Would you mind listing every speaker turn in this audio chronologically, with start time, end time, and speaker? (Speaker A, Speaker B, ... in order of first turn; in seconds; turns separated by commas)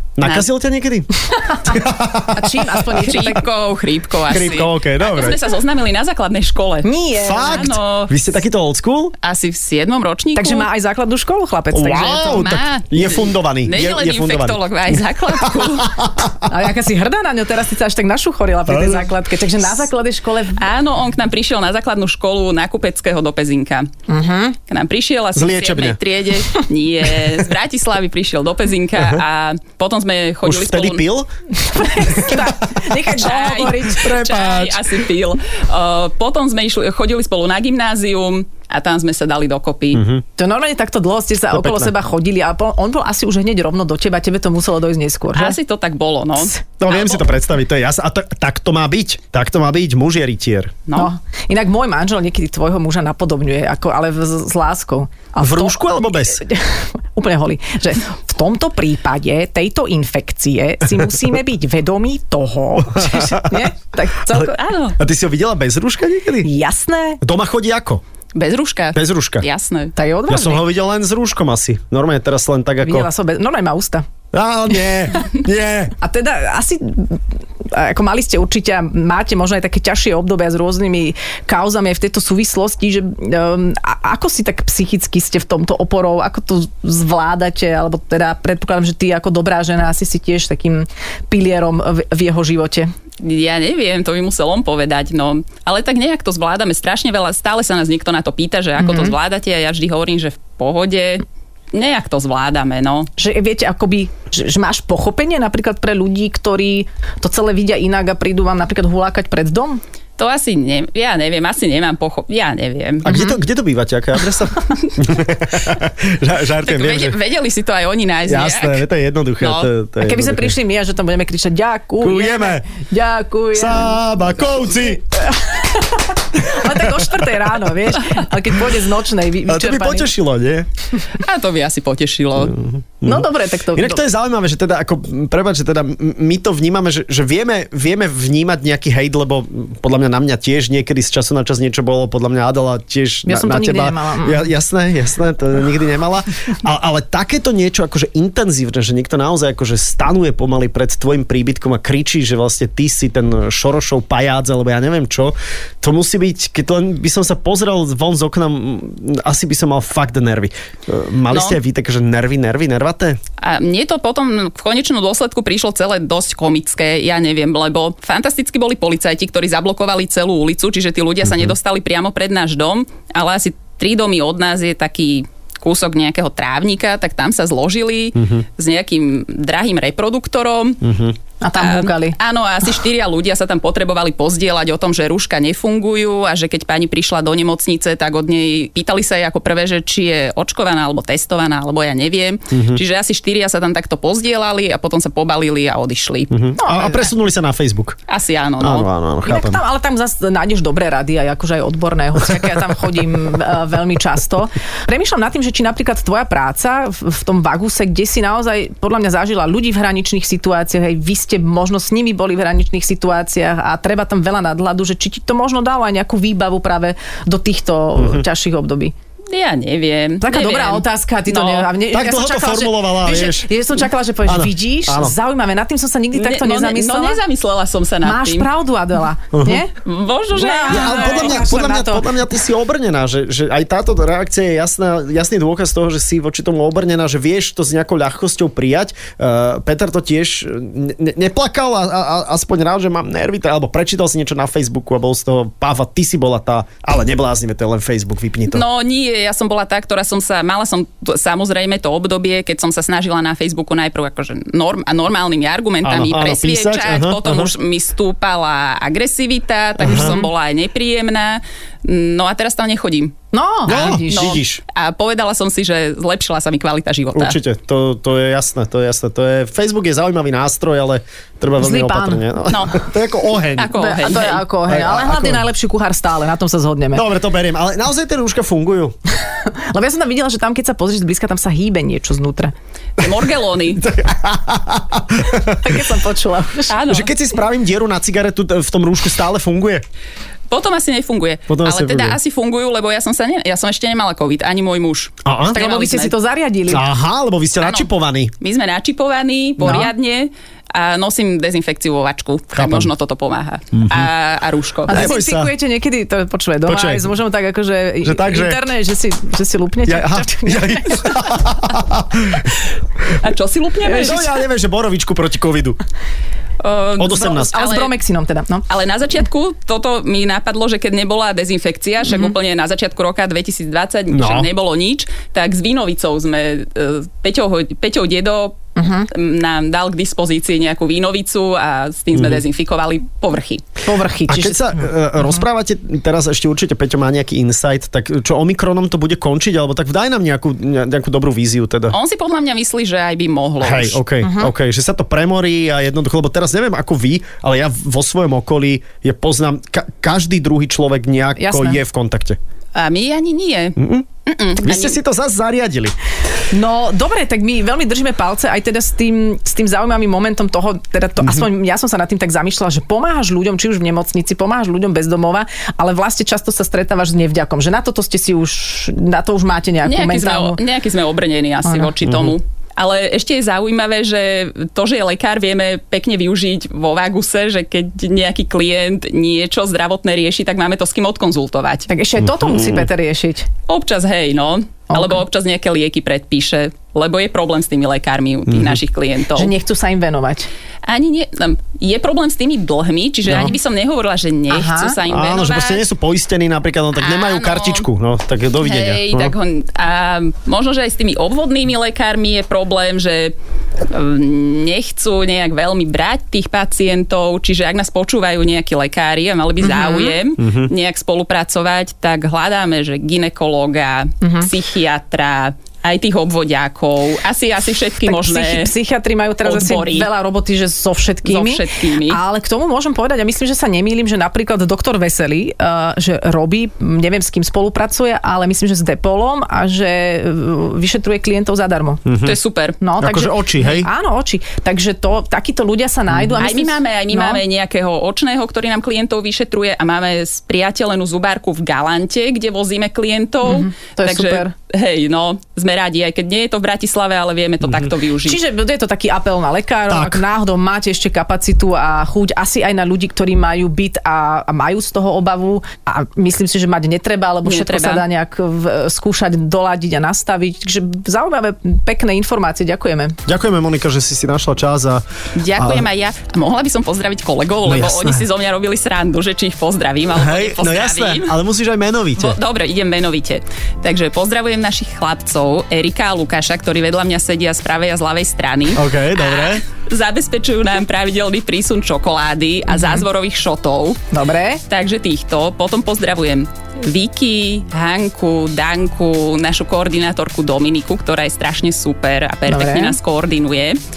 Speaker A: 0.2-1.1, Speaker B: 0.2-0.5, Speaker C: 1.3-3.4, Speaker A: 1.6-2.9, Speaker B: 2.9-8.2, Speaker A: 4.3-5.4, Speaker C: 6.8-7.7, Speaker A: 7.2-9.1, Speaker B: 9.2-10.7, Speaker C: 10.3-12.6, Speaker A: 11.7-16.5, Speaker B: 12.2-16.0, Speaker C: 16.5-20.6, Speaker A: 18.7-19.1, Speaker B: 20.6-23.9, Speaker C: 24.1-24.6, Speaker B: 24.7-31.0, Speaker A: 25.3-26.0, Speaker A: 30.4-31.3, Speaker C: 31.6-34.8, Speaker B: 33.0-40.0, Speaker A: 39.9-40.2, Speaker C: 40.4-45.6, Speaker A: 41.5-41.9, Speaker B: 45.3-47.2, Speaker A: 46.8-50.8, Speaker C: 50.9-64.6, Speaker A: 55.4-56.4, Speaker A: 62.9-63.7, Speaker A: 64.3-66.5, Speaker B: 64.5-64.9, Speaker C: 66.4-67.2, Speaker A: 67.2-68.0, Speaker B: 68.3-69.9, Speaker A: 68.9-69.5, Speaker C: 70.0-70.6, Speaker A: 70.3-73.1, Speaker C: 72.8-74.0, Speaker A: 74.3-76.0, Speaker C: 76.0-92.9, Speaker B: 93.2-103.1, Speaker C: 98.8-99.1, Speaker C: 103.2-109.8, Speaker B: 110.2-113.2, Speaker A: 113.0-117.2, Speaker C: 113.1-113.3, Speaker B: 116.6-118.8, Speaker A: 118.2-120.5, Speaker B: 119.4-119.7, Speaker C: 120.0-124.0, Speaker A: 122.0-122.6, Speaker A: 123.5-125.2, Speaker C: 125.1-130.1, Speaker A: 126.5-127.2, Speaker A: 129.5-130.7, Speaker B: 131.2-132.6, Speaker A: 132.4-163.2, Speaker C: 133.0-134.0, Speaker C: 143.3-144.5, Speaker B: 161.3-161.6, Speaker B: 163.4-180.8, Speaker A: 171.2-171.5, Speaker A: 178.2-178.4, Speaker A: 180.8-181.2, Speaker C: 181.4-182.2, Speaker B: 181.6-196.3, Speaker A: 192.5-192.8, Speaker A: 196.3-198.0, Speaker C: 196.6-197.1, Speaker B: 198.1-198.9, Speaker A: 198.6-199.6, Speaker C: 199.2-218.9, Speaker A: 217.9-218.2, Speaker B: 219.3-221.7, Speaker C: 220.2-227.2, Speaker A: 221.9-223.5, Speaker A: 224.2-225.1, Speaker B: 226.1-228.5, Speaker C: 228.0-229.7, Speaker A: 229.3-229.6, Speaker B: 229.8-231.4, Speaker C: 230.3-232.1, Speaker A: 230.7-248.6, Speaker B: 248.5-263.1, Speaker A: 255.8-257.5, Speaker A: 259.8-260.1, Speaker C: 259.9-260.3, Speaker C: 263.3-264.4, Speaker A: 263.7-264.6, Speaker B: 263.7-267.4, Speaker A: 267.1-273.7, Speaker C: 271.6-272.2, Speaker B: 272.5-272.9, Speaker B: 273.6-274.5, Speaker C: 273.7-277.0, Speaker A: 274.7-275.4, Speaker A: 276.9-278.9, Speaker C: 279.3-282.5, Speaker B: 283.0-283.8, Speaker A: 283.7-285.8, Speaker C: 285.6-286.8, Speaker B: 286.7-287.1, Speaker A: 286.9-289.8, Speaker B: 290.5-296.1, Speaker A: 291.5-292.2, Speaker A: 295.2-295.6, Speaker C: 295.5-296.9, Speaker A: 296.7-298.3, Speaker B: 297.6-297.9, Speaker B: 298.4-305.1, Speaker C: 299.6-299.9, Speaker A: 302.5-302.9, Speaker A: 303.8-304.1, Speaker A: 304.9-305.5, Speaker C: 304.9-311.3, Speaker A: 306.6-307.1, Speaker A: 308.0-308.6, Speaker A: 309.9-312.5, Speaker B: 313.2-314.4, Speaker C: 313.9-314.3, Speaker A: 313.9-315.8, Speaker B: 316.6-317.9, Speaker A: 317.0-317.6, Speaker C: 317.1-318.6, Speaker B: 318.7-328.6, Speaker A: 324.1-324.5, Speaker C: 328.8-329.1, Speaker B: 329.1-333.6, Speaker A: 332.1-332.4, Speaker C: 333.8-335.4, Speaker A: 334.3-342.0, Speaker B: 341.9-344.0, Speaker A: 343.6-352.4, Speaker C: 344.2-344.5, Speaker C: 351.4-351.8, Speaker B: 352.7-355.0, Speaker A: 353.8-354.1, Speaker A: 354.6-355.9, Speaker C: 356.5-370.6, Speaker A: 361.2-361.5, Speaker B: 369.8-381.9, Speaker C: 371.6-371.9, Speaker A: 372.0-372.3, Speaker C: 381.9-383.5, Speaker A: 382.2-382.9, Speaker B: 383.7-389.5, Speaker C: 384.9-385.2, Speaker A: 388.5-388.8, Speaker C: 389.4-390.5, Speaker B: 390.8-395.8, Speaker A: 393.2-393.5, Speaker C: 394.5-395.0, Speaker A: 395.1-399.3, Speaker B: 397.0-397.9, Speaker B: 398.6-403.3, Speaker B: 403.9-418.7, Speaker C: 409.6-410.2, Speaker A: 410.4-410.7, Speaker C: 414.2-414.5, Speaker C: 418.0-432.0, Speaker B: 419.4-420.1, Speaker B: 421.2-422.2, Speaker A: 432.0-432.4, Speaker B: 432.2-432.8, Speaker C: 432.8-437.4, Speaker A: 433.0-433.9, Speaker A: 436.1-436.4, Speaker B: 436.4-448.4, Speaker C: 443.4-444.5, Speaker C: 448.2-463.2, Speaker A: 449.9-450.2, Speaker B: 457.4-458.0, Speaker A: 463.2-465.0, Speaker B: 465.4-471.3, Speaker A: 465.5-465.9, Speaker A: 467.6-468.2, Speaker A: 470.1-472.4, Speaker B: 472.2-484.0, Speaker A: 478.7-479.6, Speaker C: 482.7-483.0, Speaker C: 484.1-484.6, Speaker B: 484.7-493.8, Speaker C: 492.5-493.0